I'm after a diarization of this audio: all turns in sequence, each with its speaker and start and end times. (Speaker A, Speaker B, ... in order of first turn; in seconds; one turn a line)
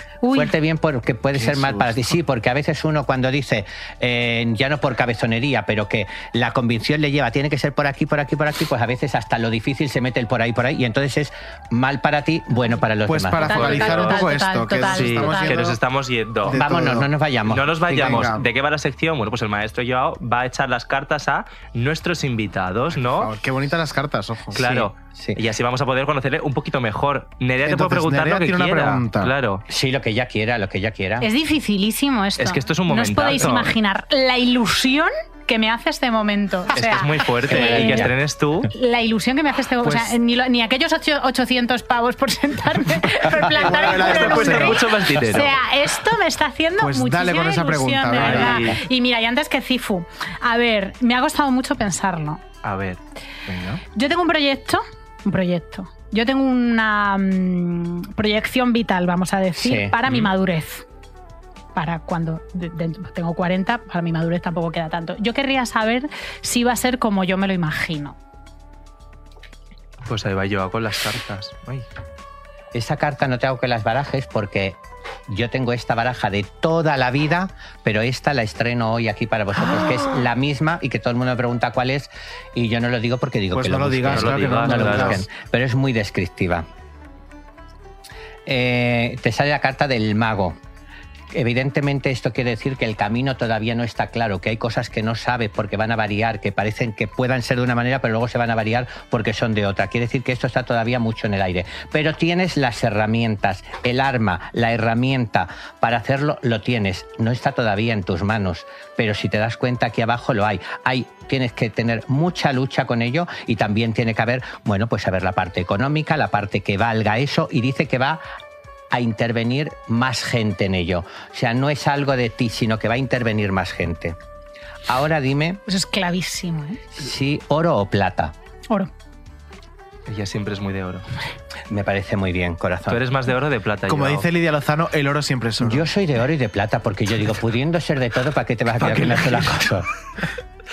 Speaker A: 0.2-0.5
Speaker B: 0.3-13.6
Speaker C: 1.4-2.0
Speaker D: 1.4-1.8
Speaker C: 13.1-15.8
Speaker A: 13.4-15.7
Speaker D: 13.4-14.2
Speaker D: 14.8-16.6
Speaker C: 16.4-17.1
Speaker B: 16.5-18.3
Speaker D: 17.4-23.3
Speaker C: 17.9-18.4
Speaker C: 22.9-24.7
Speaker B: 24.5-25.4
Speaker D: 24.5-29.6
Speaker C: 27.6-29.3
Speaker B: 29.7-31.3
Speaker A: 31.2-38.1
Speaker D: 32.4-33.7
Speaker D: 36.7-38.7
Speaker A: 38.7-52.4
Speaker C: 39.8-40.1
Speaker C: 43.4-44.9
Speaker D: 43.8-45.5
Speaker C: 46.8-48.7
Speaker D: 48.2-48.8
Speaker D: 52.6-53.0
Speaker C: 53.5-53.8
Speaker A: 53.9-60.8
Speaker B: 59.6-60.0
Speaker A: 61.7-68.2
Speaker D: 70.0-71.8
Speaker B: 72.7-86.7
Speaker C: 83.5-85.3
Speaker D: 84.1-85.2
Speaker B: 88.5-90.6
Speaker B: 91.3-118.2
Speaker B: 118.9-124.2
Speaker B: 124.9-125.6
Speaker A: 125.7-126.8
Speaker B: 127.0-128.3
Speaker D: 130.1-131.0
Speaker B: 131.7-133.0
Speaker D: 132.9-134.3
Speaker C: 133.9-135.9
Speaker B: 135.6-139.9
Speaker D: 138.8-139.7